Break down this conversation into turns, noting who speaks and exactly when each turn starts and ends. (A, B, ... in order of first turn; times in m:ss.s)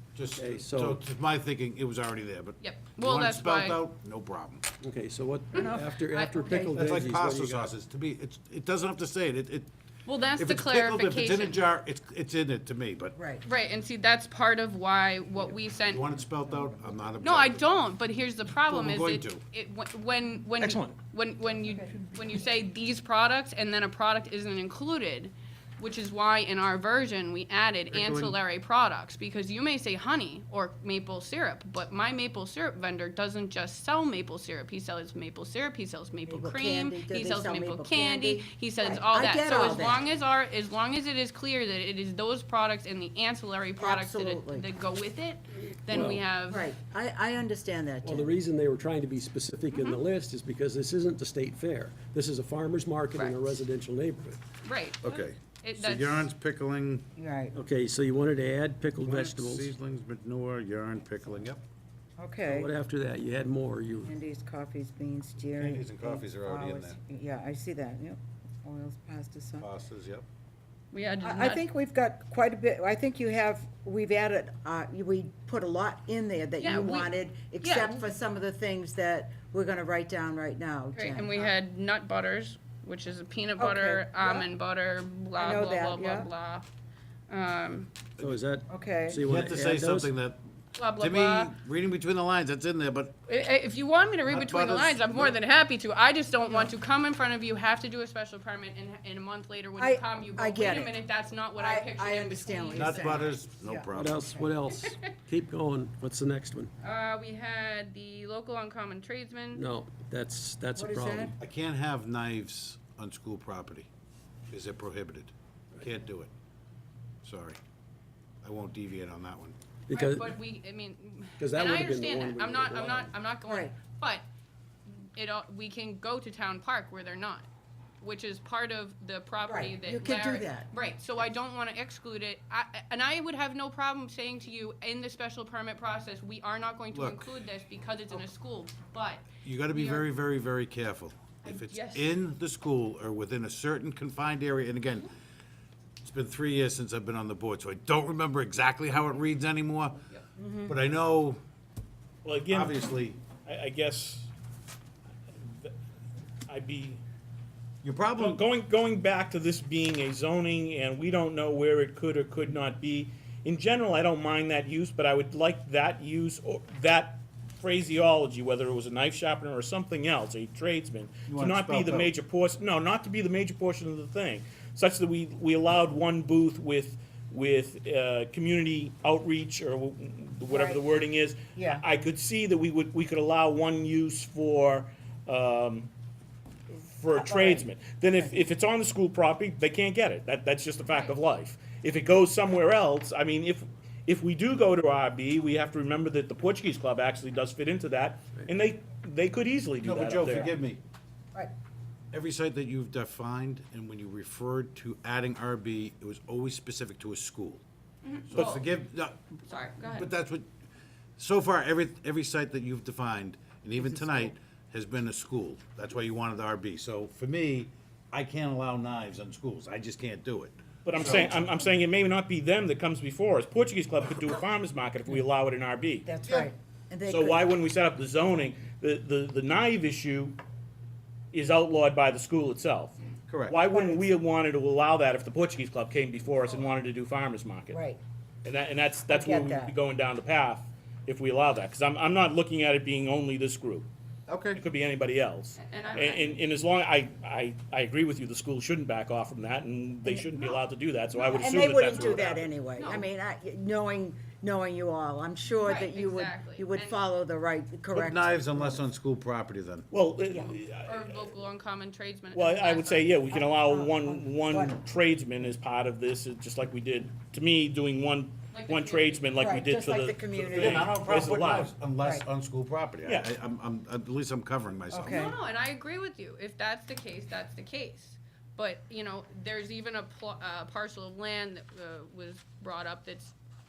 0:00.1-0:04.6 A
0:00.4-0:01.0 B
0:02.6-0:03.8 C
0:04.8-0:07.7 B
0:05.5-0:07.0 D
0:05.6-0:06.6 C
0:06.7-0:09.7 A
0:10.0-0:11.6 C
0:10.4-0:13.2 A
0:13.1-0:13.4 D
0:13.4-0:16.1 C
0:15.8-0:17.6 A
0:17.2-0:46.7 C
0:18.7-0:19.4 A
0:20.6-0:20.9 B
0:27.9-0:28.4 A
0:36.2-0:40.0 D
0:43.8-0:44.7 D
0:45.9-0:46.2 B
0:45.9-0:48.3 D
0:48.0-0:54.4 B
0:49.7-0:50.0 C
0:53.1-0:53.5 C
0:54.6-0:56.3 C
0:55.0-0:57.1 A
0:57.2-0:57.6 D
0:57.5-0:59.7 B
0:59.0-1:01.6 A
1:02.2-1:02.7 D
1:02.5-1:04.2 B
1:04.0-1:09.7 D
1:05.6-1:07.0 A
1:09.6-1:10.2 A
1:10.9-1:11.6 C
1:11.2-1:21.5 D
1:16.6-1:18.0 C
1:20.9-1:26.7 C
1:23.6-1:24.5 D
1:25.4-1:26.3 D
1:27.3-1:27.9 C
1:28.2-1:30.1 B
1:28.7-1:29.2 D
1:29.2-1:30.4 A
1:30.8-1:31.5 C
1:31.0-1:33.1 A
1:33.3-1:43.3 C
1:34.3-1:35.4 A
1:39.8-1:41.0 D
1:41.6-1:44.5 D
1:42.7-1:44.2 A
1:43.9-1:46.7 B
1:46.8-1:49.6 C
1:49.5-1:51.4 B
1:50.8-1:51.3 D
1:51.4-1:53.9 A
1:54.5-1:56.3 A
1:57.2-1:57.6 A
1:58.4-1:59.6 A
1:59.9-2:00.4 B
1:59.9-2:04.2 C
2:01.4-2:03.1 B
2:03.5-2:03.7 D
2:04.9-2:07.4 C
2:08.0-2:20.1 C
2:09.4-2:10.7 D
2:16.9-2:17.3 A
2:19.4-2:25.1 A
2:21.4-2:22.2 C
2:26.0-2:30.0 A
2:30.4-2:30.8 D
2:30.6-2:31.4 A
2:32.2-2:34.3 E
2:32.5-2:33.2 A
2:35.4-2:35.7 E
2:36.5-2:37.0 E
2:37.8-2:38.4 A
2:38.2-3:05.9 E
2:51.3-2:52.1 A
3:00.5-3:00.9 D
3:01.5-3:01.8 D
3:06.9-3:20.5 E
3:07.1-3:08.4 D
3:10.9-3:11.2 C
3:19.8-3:20.8 A
3:22.1-3:27.6 A
3:28.0-3:28.6 C
3:28.3-3:29.2 A
3:29.5-3:30.1 C
3:29.8-3:30.5 A
3:31.2-3:41.3 A
3:33.8-3:34.3 D
3:40.8-3:46.1 E
3:40.9-3:41.6 D
3:46.0-3:47.4 D
3:47.1-3:50.4 E
3:51.3-3:53.0 E
3:53.3-3:53.6 A
3:53.5-3:57.8 E
3:53.7-3:54.0 D
3:57.7-3:58.0 D
3:58.4-4:03.9 E
3:59.1-3:59.7 D
4:04.3-4:04.6 A
4:04.6-4:12.5 E
4:05.6-4:06.4 C
4:10.0-4:10.6 D
4:11.1-4:18.8 D
4:12.8-4:13.1 C
4:15.6-4:17.0 C
4:17.9-4:19.9 A
4:19.9-4:21.1 E
4:20.3-4:20.5 D
4:20.8-4:23.1 C
4:22.3-4:31.7 E
4:23.3-4:24.8 D
4:28.5-4:29.4 C
4:29.4-4:31.1 D
4:30.4-4:35.3 A
4:32.0-4:32.2 D
4:34.9-4:35.3 D
4:35.0-4:43.3 C